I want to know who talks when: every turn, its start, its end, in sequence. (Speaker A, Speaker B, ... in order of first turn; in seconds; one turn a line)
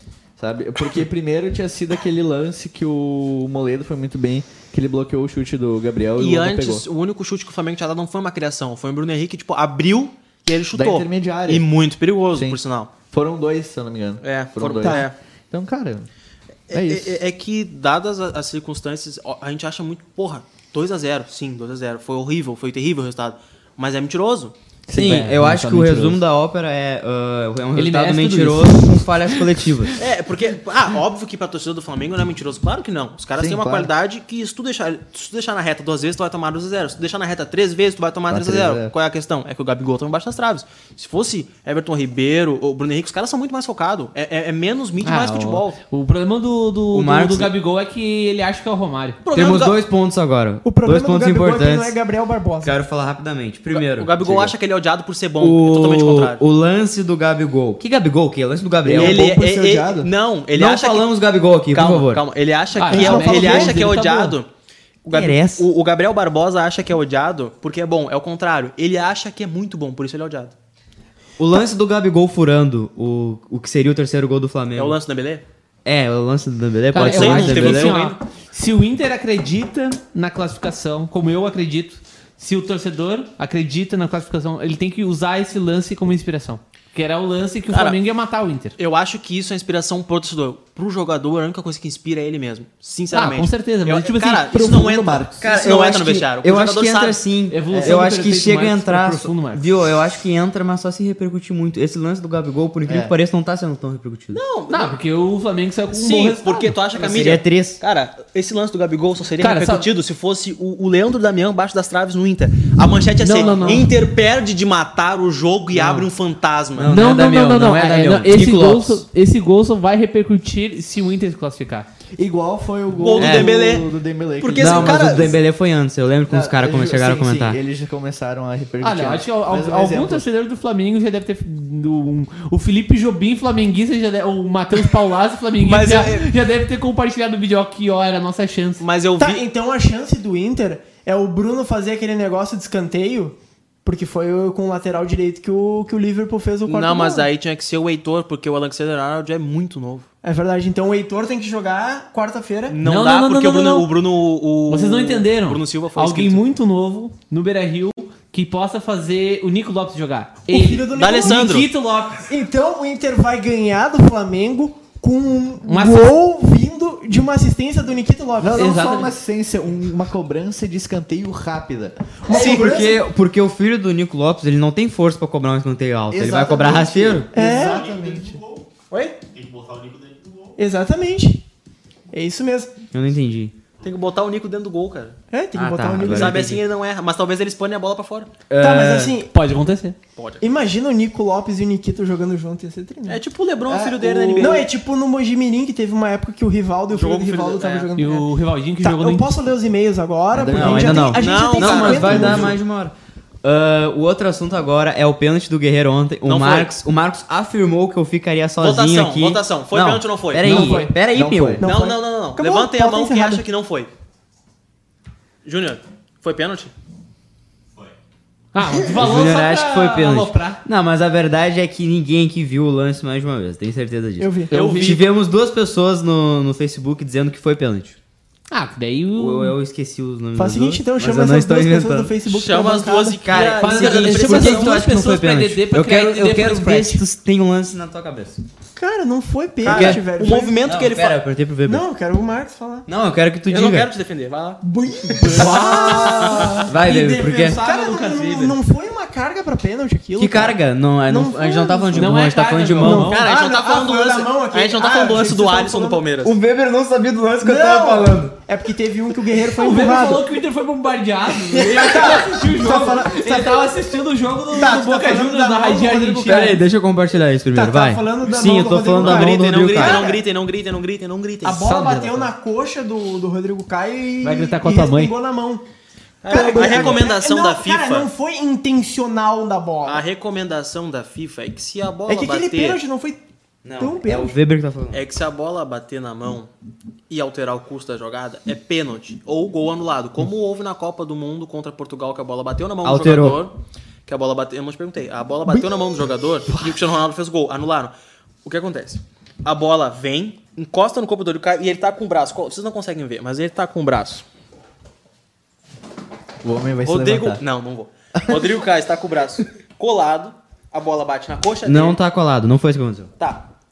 Speaker A: 0.4-6.8
Speaker B: 6.2-12.9
Speaker A: 10.7-11.7
Speaker A: 12.3-16.1
Speaker B: 14.2-15.1
Speaker C: 14.8-15.1
Speaker B: 16.7-24.6
Speaker A: 16.7-17.1
Speaker A: 24.9-26.2
Speaker D: 24.9-29.9
Speaker E: 27.8-29.9
Speaker B: 30.0-45.8
Speaker A: 33.4-33.9
Speaker A: 38.3-38.9
Speaker E: 45.0-49.2
Speaker D: 46.9-47.5
Speaker B: 49.2-49.8
Speaker D: 49.3-52.0
Speaker C: 50.6-52.8
Speaker D: 52.6-54.5
Speaker B: 53.7-56.4
Speaker D: 55.4-59.3
Speaker A: 58.8-60.1
Speaker B: 58.9-61.1
Speaker D: 60.5-62.3
Speaker B: 61.7-64.5
Speaker E: 62.8-64.4
Speaker C: 62.9-63.8
Speaker B: 65.0-70.5
Speaker D: 65.1-65.7
Speaker D: 71.4-75.0
Speaker B: 74.8-75.4
Speaker D: 75.8-78.0
Speaker E: 76.9-88.8
Speaker B: 77.0-78.2
Speaker B: 87.7-88.0
Speaker B: 88.8-97.2
Speaker E: 93.1-94.5
Speaker A: 94.5-95.4
Speaker D: 95.4-104.4
Speaker E: 97.5-99.7
Speaker A: 97.7-98.0
Speaker A: 102.9-103.1
Speaker B: 104.3-105.0
Speaker E: 104.7-106.8
Speaker B: 105.9-117.0
Speaker D: 107.0-107.8
Speaker E: 109.4-109.9
Speaker E: 113.2-113.9
Speaker D: 116.8-119.0
Speaker E: 116.8-121.9
Speaker A: 122.2-125.4
Speaker B: 123.0-125.4
Speaker D: 123.2-123.6
Speaker D: 124.6-127.6
Speaker A: 126.3-130.3
Speaker E: 128.8-138.8
Speaker B: 135.6-136.3
Speaker B: 138.8-139.4
Speaker C: 139.2-147.3
Speaker B: 146.6-150.1
Speaker C: 150.2-152.8
Speaker B: 152.7-156.4
Speaker E: 152.8-153.9
Speaker E: 154.7-162.3
Speaker C: 160.5-161.5
Speaker B: 160.9-161.7
Speaker C: 162.3-168.7
Speaker E: 165.6-166.2
Speaker A: 168.4-172.1
Speaker E: 168.6-169.1
Speaker C: 172.3-173.0
Speaker D: 172.3-177.3
Speaker A: 176.1-178.4
Speaker C: 177.3-177.9
Speaker C: 180.6-181.4
Speaker C: 182.1-182.7
Speaker D: 182.9-183.5
Speaker B: 183.8-185.2
Speaker C: 185.3-186.6
Speaker D: 185.6-186.6
Speaker B: 186.1-188.3
Speaker D: 188.5-189.2
Speaker C: 188.6-189.3
Speaker E: 189.3-190.0
Speaker B: 190.2-190.5
Speaker C: 190.4-193.2
Speaker B: 193.1-194.7
Speaker A: 193.7-194.7
Speaker C: 194.4-198.3
Speaker B: 196.9-197.9
Speaker E: 198.0-199.3
Speaker C: 198.8-202.6
Speaker A: 200.3-201.2
Speaker D: 200.4-211.6
Speaker B: 200.6-202.5
Speaker B: 206.2-206.7
Speaker B: 208.6-210.7
Speaker E: 210.4-210.9
Speaker C: 210.4-210.9
Speaker A: 211.1-211.7
Speaker C: 211.6-213.4
Speaker B: 211.6-213.9
Speaker B: 215.4-216.7
Speaker E: 218.5-220.6
Speaker D: 218.9-228.0
Speaker C: 224.2-224.6
Speaker E: 224.5-225.0
Speaker B: 224.5-225.1
Speaker E: 228.5-229.6
Speaker D: 229.2-232.1
Speaker C: 230.3-233.3
Speaker B: 232.3-234.8
Speaker D: 233.2-238.4
Speaker E: 233.4-237.0
Speaker C: 238.8-240.6
Speaker D: 239.6-240.0
Speaker B: 239.6-241.2
Speaker D: 240.6-241.8
Speaker C: 241.7-242.9
Speaker D: 242.9-243.9
Speaker B: 243.5-244.6
Speaker C: 244.6-252.1
Speaker B: 245.2-246.6
Speaker E: 245.2-248.6
Speaker D: 245.4-247.6
Speaker D: 250.2-253.2
Speaker E: 251.9-253.3
Speaker C: 252.8-256.0
Speaker B: 252.9-256.3
Speaker D: 256.2-258.4
Speaker C: 257.4-260.2
Speaker E: 259.4-266.6
Speaker C: 261.5-263.9
Speaker C: 264.5-266.6
Speaker D: 266.3-270.0
Speaker C: 267.5-270.2
Speaker B: 268.9-271.8
Speaker C: 271.4-275.6
Speaker E: 271.6-272.3
Speaker E: 274.2-275.1
Speaker B: 276.2-278.1
Speaker C: 276.3-280.1
Speaker A: 276.6-276.9
Speaker B: 279.9-282.8
Speaker C: 282.1-283.2
Speaker D: 283.6-285.1
Speaker C: 283.8-284.4
Speaker B: 284.9-286.5
Speaker B: 287.1-293.6
Speaker D: 292.8-293.5
Speaker B: 294.1-297.9
Speaker C: 295.5-295.9
Speaker A: 296.5-296.8
Speaker B: 298.4-304.2
Speaker A: 306.4-307.4
Speaker B: 306.9-312.0
Speaker A: 308.2-308.6
Speaker D: 311.6-313.1
Speaker B: 313.2-313.5